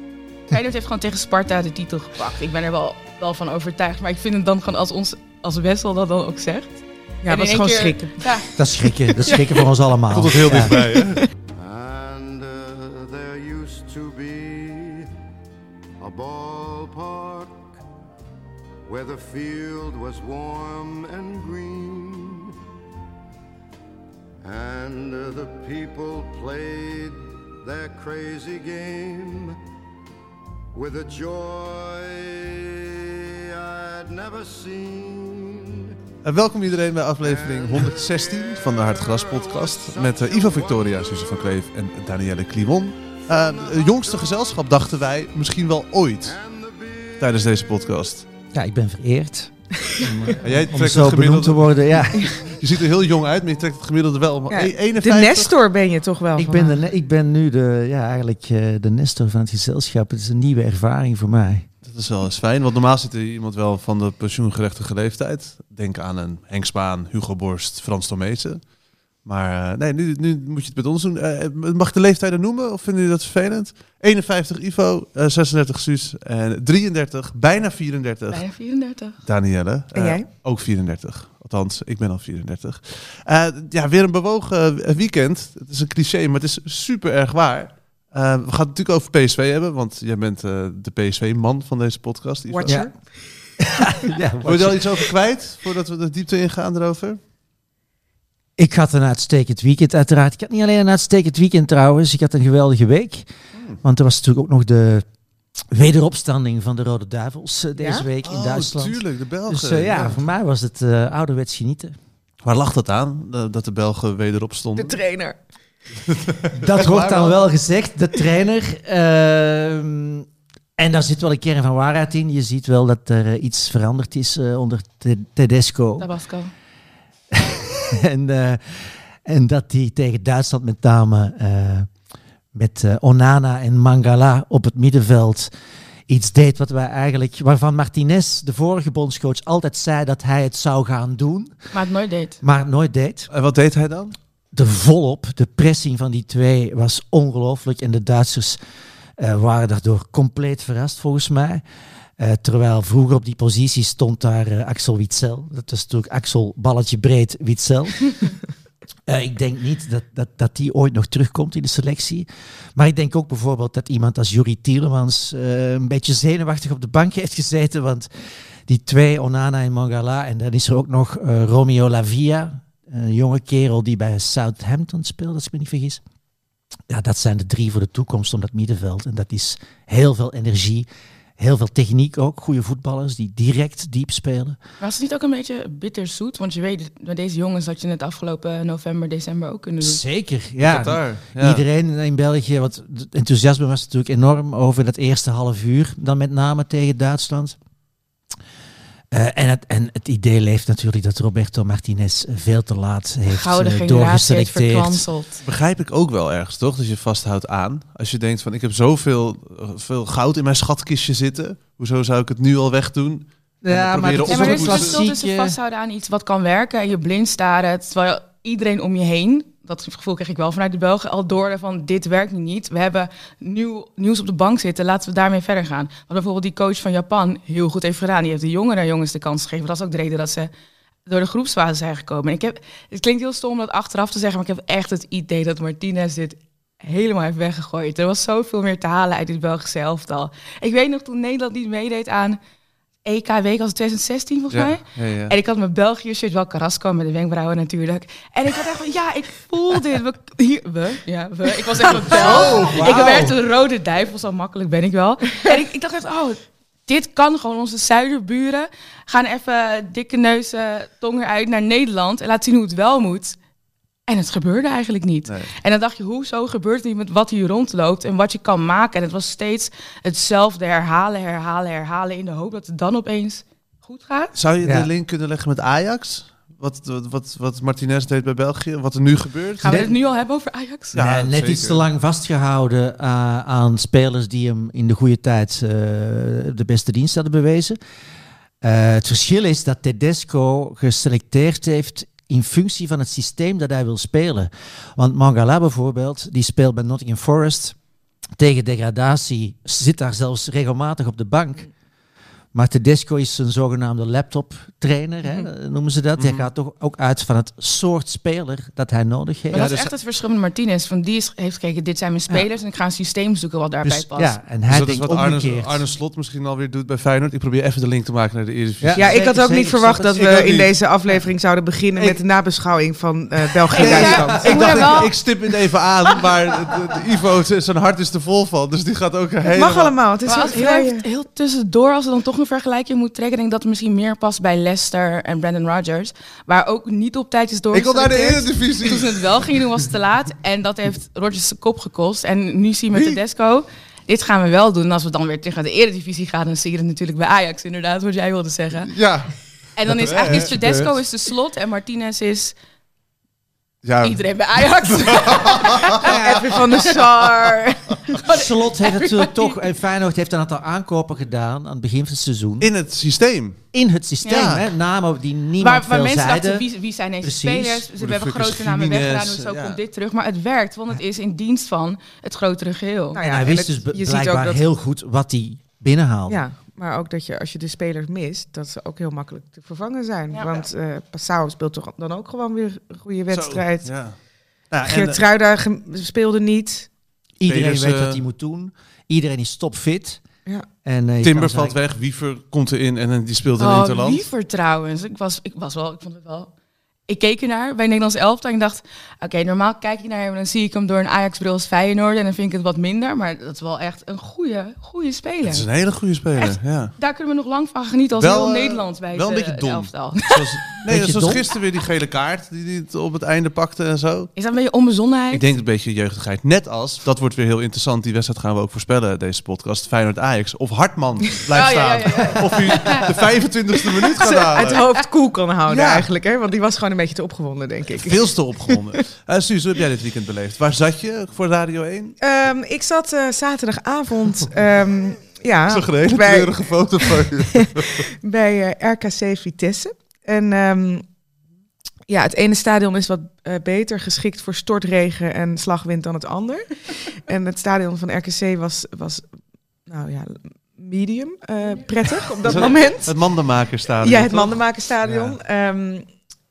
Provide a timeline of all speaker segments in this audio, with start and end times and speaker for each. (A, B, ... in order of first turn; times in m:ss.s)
0:00.5-0:08.5 A
0:07.2-0:08.2 B
0:08.6-0:10.8 C
0:09.2-0:09.5 A
0:10.1-0:11.2 D
0:10.7-0:11.2 B
0:11.6-0:15.1 E
0:16.0-0:17.8 E
0:18.9-0:22.5 E
0:24.4-0:29.5 E
0:30.7-0:35.9 E
0:36.2-0:46.3 D
0:37.2-0:41.6 E
0:43.3-0:44.4 E
0:46.2-0:47.4 E
0:47.2-0:48.2 D
0:48.5-0:52.3 C
0:49.8-0:50.3 B
0:50.4-0:55.5 D
0:54.5-0:56.8 B
0:56.3-1:01.7 C
1:01.8-1:08.6 D
1:09.2-1:18.4 D
1:18.3-1:19.2 A
1:19.2-1:32.8 D
1:19.9-1:20.2 B
1:32.5-1:32.9 B
1:33.6-1:35.1 C
1:34.4-1:37.2 D
1:38.6-1:43.3 C
1:43.5-1:43.8 D
1:43.8-1:45.0 C
1:45.7-1:52.0 C
1:47.8-1:48.0 B
1:48.2-1:50.2 D
1:52.4-1:55.0 D
1:54.8-1:55.4 B
1:56.0-1:57.4 D
1:56.5-2:06.1 C
2:06.0-2:06.5 A
2:07.3-2:11.9 C
2:12.5-2:15.5 C
2:16.1-2:21.6 C
2:21.7-2:22.4 A
2:22.4-2:23.3 C
2:23.3-2:24.1 D
2:24.5-2:28.6 C
2:29.2-2:31.6 C
2:32.2-2:38.3 C
2:39.0-2:48.1 C
2:48.7-2:56.0 C
2:56.9-3:00.9 C
3:01.4-3:04.6 C
3:04.8-3:10.0 A
3:09.8-3:17.6 C
3:10.6-3:11.6 D
3:19.1-3:25.0 C
3:23.3-3:25.4 A
3:25.4-3:35.0 D
3:33.6-3:35.6 C
3:34.2-3:50.5 A
3:51.0-4:02.4 A
4:03.0-4:23.4 A
4:04.5-4:05.3 D
4:12.0-4:13.4 D
4:12.2-4:13.3 C
4:24.1-4:34.3 A
4:34.4-4:39.8 D
4:34.6-4:34.9 C
4:39.6-4:41.0 A
4:39.6-4:39.9 C
4:40.9-4:41.8 D
4:40.9-4:47.8 C
4:48.6-4:57.7 C
4:58.4-5:01.7 C
5:02.5-5:09.7 C
5:06.2-5:06.5 D
5:09.5-5:14.4 A
5:09.5-5:09.9 D
5:13.8-5:15.8 C
5:14.7-5:19.3 D
5:18.8-5:20.3 C
5:19.0-5:25.0 B
5:20.1-5:20.7 D
5:23.7-5:25.1 A
5:23.7-5:30.0 D
5:23.7-5:24.9 C
5:29.5-5:31.0 B
5:30.2-5:48.9 A
5:37.7-5:39.8 D
5:42.9-5:43.2 D
5:48.9-5:49.3 D
5:49.8-5:52.6 A
5:49.9-5:50.5 D
5:50.2-5:50.9 C
5:53.8-5:56.1 D
5:54.0-5:59.6 A
5:56.0-5:57.6 B
5:58.3-6:02.7 C
6:02.6-6:03.6 D
6:03.7-6:06.6 C
6:04.3-6:04.7 D
6:05.6-6:13.2 A
6:07.2-6:07.8 C
6:08.0-6:09.8 D
6:13.1-6:14.6 B
6:13.2-6:16.4 C
6:16.3-6:23.9 B
6:20.3-6:20.6 A
6:23.3-6:24.1 D
6:24.7-6:25.2 D
6:24.9-6:26.9 B
6:27.4-6:30.2 C
6:27.4-6:28.2 D
6:30.8-6:31.8 C
6:31.2-6:34.3 D
6:33.6-6:36.5 A
6:37.1-6:45.6 A
6:45.4-6:46.9 D
6:46.4-6:50.6 A
6:48.2-6:54.3 D
6:50.8-6:51.5 C
6:54.4-6:55.4 A
6:55.3-7:04.8 D
7:01.5-7:03.1 A
7:04.2-7:08.7 B
7:04.2-7:04.8 A
7:05.7-7:06.1 D
7:07.9-7:12.1 D
7:12.2-7:21.0 B
7:15.7-7:18.1 D
7:22.1-7:29.3 B
7:29.9-7:33.1 B
7:32.4-7:34.6 D
7:34.0-7:36.0 B
7:35.0-7:35.4 C